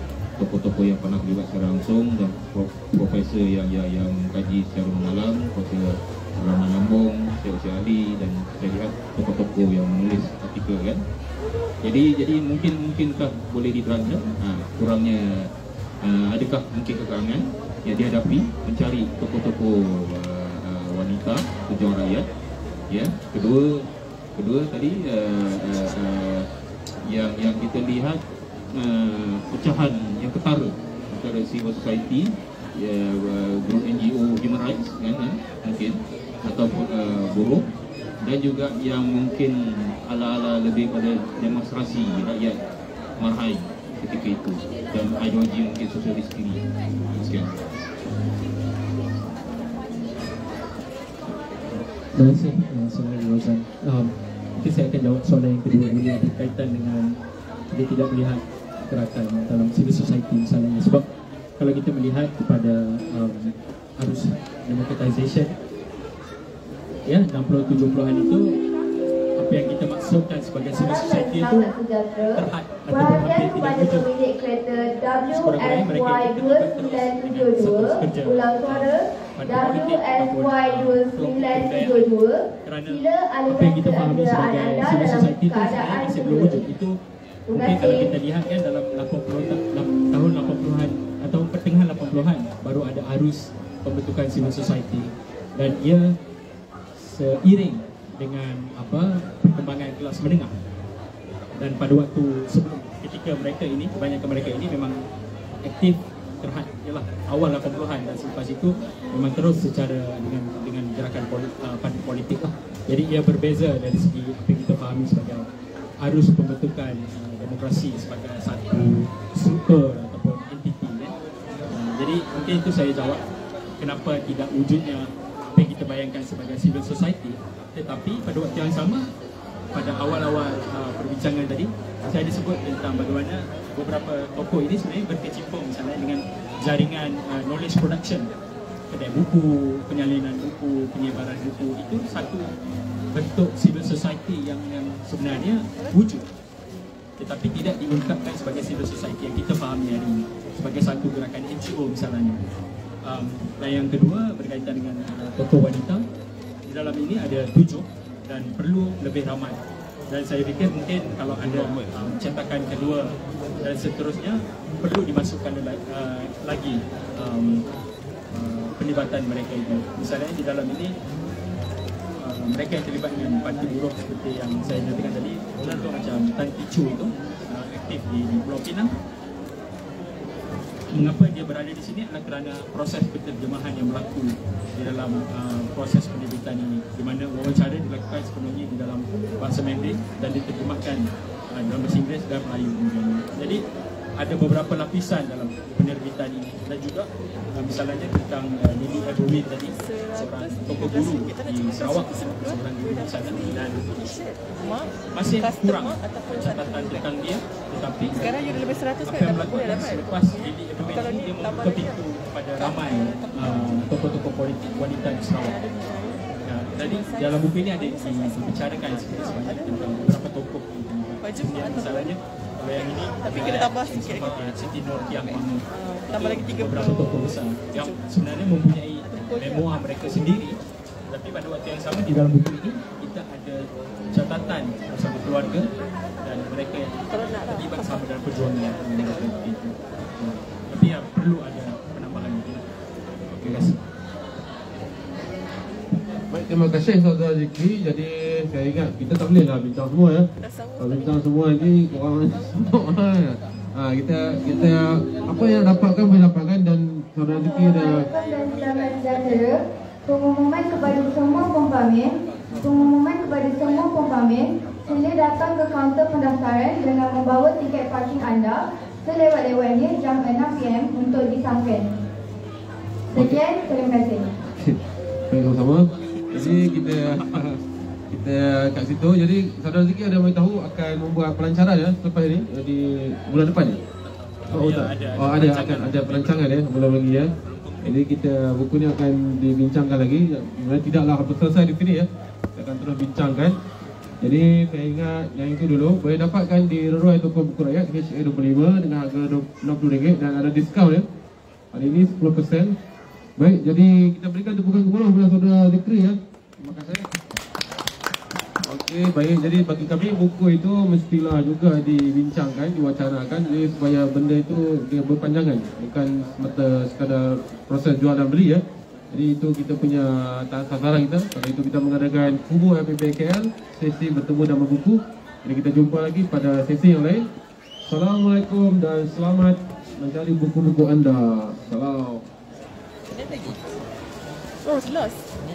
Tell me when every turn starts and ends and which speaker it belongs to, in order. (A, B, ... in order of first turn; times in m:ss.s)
0:00.4-0:11.0 A
0:11.8-0:15.5 A
0:16.0-0:22.2 A
0:22.9-0:23.8 A
0:24.4-0:26.5 A
0:27.1-0:28.2 A
0:28.8-0:37.6 A
0:38.2-0:39.5 A
0:40.1-0:42.6 A
0:43.2-0:47.5 A
0:52.1-0:57.1 B
0:57.7-1:01.1 B
1:01.6-1:05.5 B
1:07.0-1:08.5 B
1:09.4-1:11.7 B
1:10.7-1:26.6 C
1:12.3-1:14.1 B
1:15.3-1:22.1 B
1:22.6-1:27.0 B
1:27.5-1:28.1 C
1:27.5-1:36.1 B
1:37.0-1:40.6 B
1:41.6-1:45.0 B
1:45.6-1:55.5 B
1:56.0-2:01.1 B
2:01.7-2:03.2 B
2:03.8-2:09.1 B
2:09.7-2:18.3 B
2:18.9-2:22.5 B
2:23.1-2:26.2 B
2:27.2-2:32.5 B
2:33.0-2:36.0 B
2:36.7-2:43.1 B
2:41.5-2:41.9 D
2:43.6-2:47.6 B
2:48.3-2:50.9 B
2:52.2-2:58.9 B
3:00.9-3:13.6 B
3:14.2-3:24.2 B
3:19.8-3:27.2 E
3:25.1-3:28.4 B
3:28.1-3:32.0 E
3:29.0-3:35.6 B
3:32.6-3:33.6 E
3:35.4-3:36.2 E
3:36.4-3:45.6 B
3:36.8-3:38.5 E
3:39.2-3:40.0 E
3:41.2-3:42.1 E
3:43.2-3:44.2 E
3:45.7-3:48.0 E
3:46.2-3:50.5 B
3:49.1-3:50.0 E
3:51.1-3:55.7 B
3:56.2-3:56.9 B
3:57.1-3:58.1 E
3:57.5-4:02.6 B
3:58.7-3:59.4 E
4:03.3-4:03.8 B
4:06.3-4:10.3 D
4:10.4-4:11.2 E
4:10.8-4:18.0 D
4:17.4-4:31.9 C
4:17.7-4:18.7 E
4:33.1-4:34.4 C
4:33.1-4:33.4 D
4:34.4-4:34.8 D
4:35.3-4:37.6 D
4:38.1-4:43.8 D
4:44.4-4:46.4 B
4:44.5-4:47.3 D
4:47.8-4:53.5 D
4:54.2-5:01.0 D
5:01.7-5:02.7 D
5:03.4-5:07.1 D
5:08.6-5:27.2 D
5:27.8-5:32.2 D
5:33.1-5:33.6 E
5:34.6-5:35.2 E